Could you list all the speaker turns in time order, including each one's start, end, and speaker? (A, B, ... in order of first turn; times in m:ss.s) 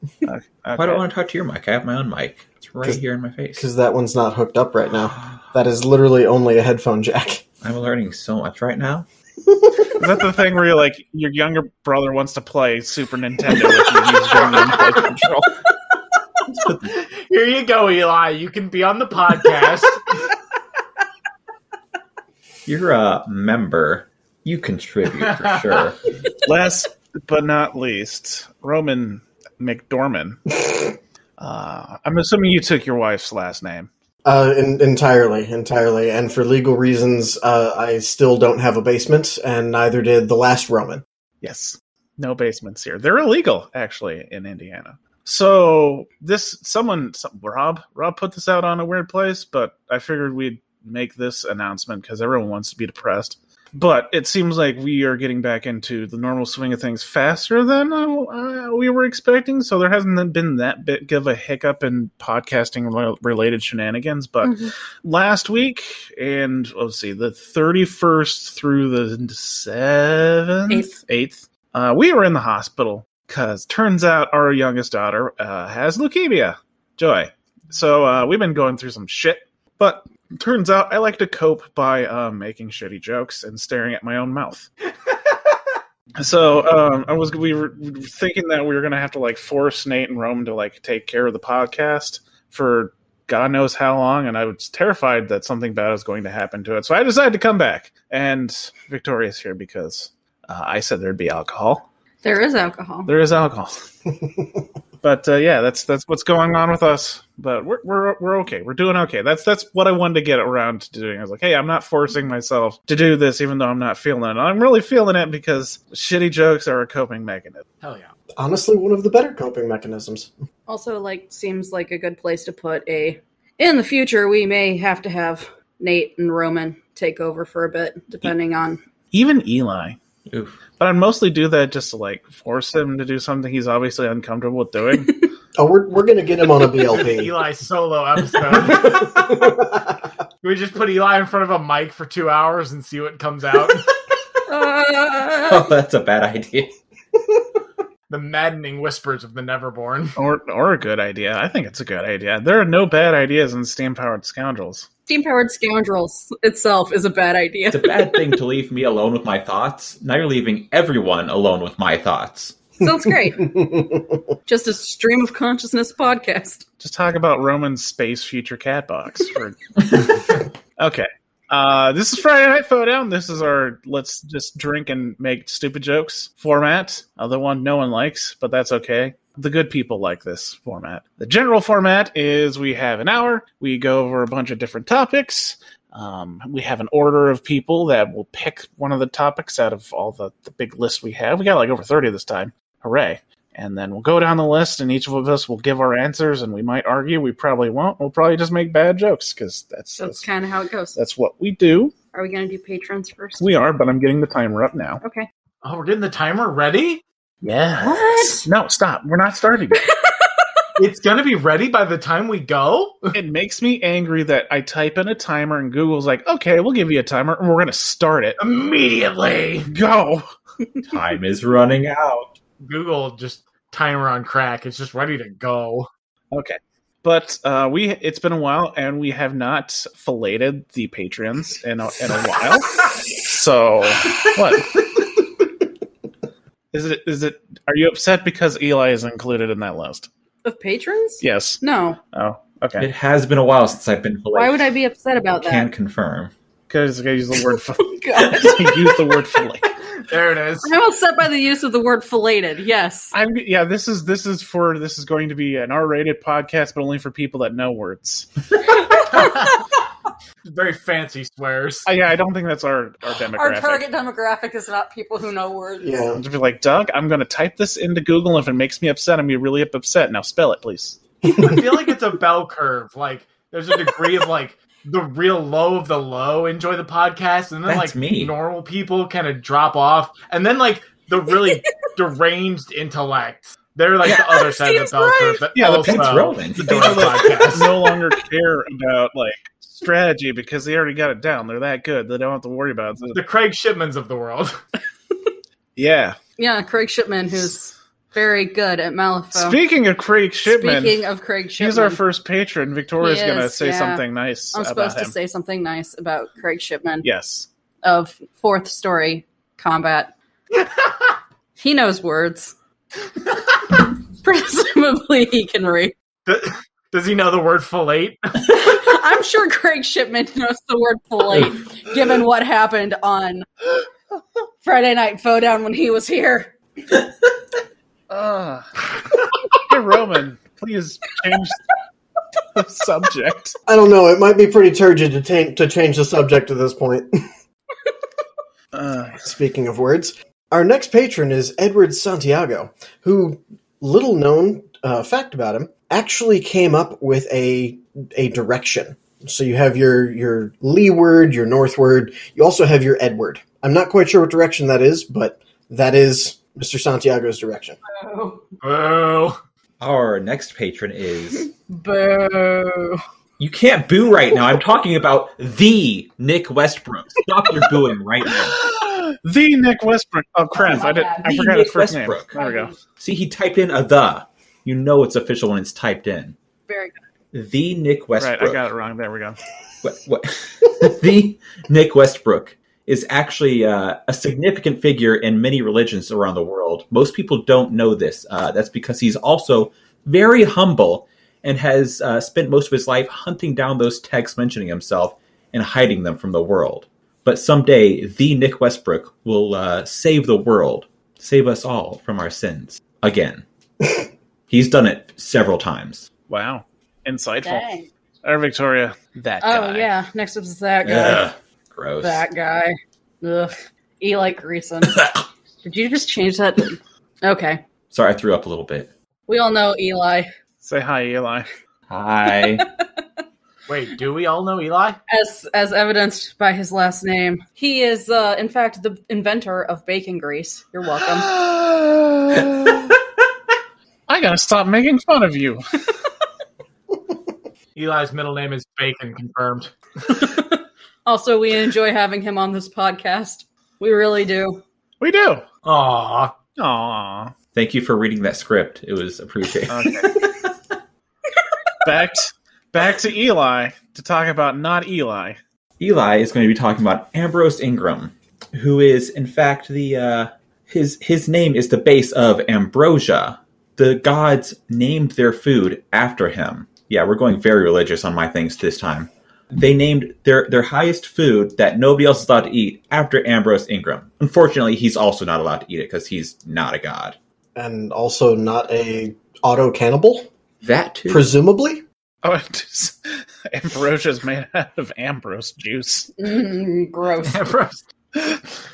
0:00.2-0:01.0 A
0:00.8-0:03.6 B
0:03.6-0:07.4 C
0:07.6-0:09.0 B
0:09.6-0:09.9 C
0:10.0-0:15.6 A
0:14.4-0:14.8 D
0:16.8-0:20.3 D
0:22.6-0:26.0 B
0:25.2-0:25.6 D
0:26.4-0:30.8 A
0:31.4-0:33.9 A
0:34.2-0:41.0 C
0:41.4-1:24.7 A
1:04.4-1:04.7 E
1:10.7-1:11.0 E
1:26.2-1:41.9 A
1:42.2-1:43.1 E
1:43.1-1:43.9 A
1:45.0-1:57.6 A
1:57.8-1:58.1 D
1:58.4-2:00.3 C
2:00.7-2:08.8 E
2:09.1-2:10.0 A
2:10.3-2:10.6 B
2:10.8-2:15.1 A
2:15.5-2:17.4 C
2:16.8-2:19.1 D
2:18.5-2:20.1 C
2:20.4-2:23.9 D
2:24.5-2:25.6 E
2:25.5-2:26.7 B
2:28.1-2:30.2 D
2:30.2-2:34.9 A
2:35.1-2:38.3 E
2:37.7-2:42.6 B
2:42.8-2:43.5 E
2:43.4-2:44.0 C
2:44.5-2:46.6 E
2:46.8-2:50.3 A
2:50.8-3:20.3 A
3:20.0-3:21.0 E
3:20.9-3:21.9 A
3:22.1-3:23.5 E
3:23.4-3:25.0 A
3:25.0-3:25.3 E
3:25.6-3:27.0 D
3:27.4-3:29.8 A
3:27.8-3:28.5 E
3:29.8-3:30.4 E
3:30.8-3:33.2 D
3:33.1-3:38.4 A
3:38.4-3:39.7 D
3:39.7-3:40.2 A
3:40.9-3:42.3 B
3:42.6-3:45.9 D
3:46.3-3:54.9 A
3:56.7-4:00.1 A
4:00.4-4:02.0 E
4:01.2-4:01.6 A
4:02.1-4:02.9 A
4:02.8-4:04.7 B
4:04.3-4:05.7 E
4:05.4-4:06.3 B
4:06.7-4:09.7 A
4:07.7-4:09.4 E
4:10.1-4:10.7 D
4:10.6-4:13.1 E
4:13.1-4:18.4 A
4:18.6-4:19.6 E
4:19.1-4:19.6 D
4:20.4-4:21.9 D
4:21.8-4:23.9 A
4:23.3-4:25.9 E
4:25.8-4:26.2 C
4:26.2-4:31.0 A
4:31.3-4:47.7 D
4:31.4-4:31.6 C
4:37.6-4:38.4 B
4:44.4-4:45.4 E
4:45.5-4:45.9 A
4:45.6-4:47.0 B
4:46.6-4:53.2 A
4:53.1-4:54.6 D
4:55.8-4:56.2 A
4:56.4-4:59.6 E
4:59.3-5:01.0 A
5:00.4-5:02.0 E
5:01.6-5:05.1 A
5:03.0-5:07.0 E
5:07.0-5:07.5 A
5:07.8-5:10.1 E
5:11.6-5:12.5 E
5:13.7-5:15.9 E
5:16.2-5:18.6 D
5:18.5-5:23.4 E
5:24.6-5:26.5 E
5:28.1-5:28.9 A
5:29.5-5:31.7 A
5:32.5-5:33.5 A
5:33.7-5:37.2 C
5:38.7-5:39.2 A
5:39.2-5:57.8 C
5:57.9-5:58.4 E
5:58.6-5:59.4 D
5:59.8-6:01.5 B
6:01.4-6:03.0 E
6:03.4-6:08.6 B
6:08.3-6:12.7 A
6:10.6-6:11.5 E
6:11.2-6:12.3 B
6:12.3-6:12.8 E
6:13.0-6:16.3 B
6:16.7-6:17.0 E
6:17.3-6:18.6 B
6:18.2-6:19.4 A
6:19.8-6:43.4 B
6:44.5-6:46.1 B
6:46.3-6:47.7 A
6:47.4-6:47.9 E
6:48.2-6:49.9 A
6:49.4-6:51.3 E
6:50.8-6:52.2 B
6:52.0-6:57.6 E
6:57.9-6:58.9 B
6:59.3-7:00.3 E
7:00.6-7:01.5 A
7:01.9-7:02.6 B
7:02.3-7:03.0 E
7:03.7-7:05.0 D
7:05.1-7:11.3 E
7:11.1-7:12.9 A
7:14.1-7:15.6 A
7:17.7-7:19.7 D
7:20.1-7:24.6 E
7:25.0-7:25.4 A
7:25.6-7:26.4 D
7:26.6-7:27.3 A
7:27.5-7:30.2 B
7:29.7-7:30.2 A
7:31.8-7:35.4 A
7:35.8-7:57.2 B
7:57.6-8:00.3 C
8:00.6-8:01.3 B
8:01.1-8:01.8 C
8:02.2-8:06.1 A
8:06.2-8:07.4 E
8:07.2-8:07.9 D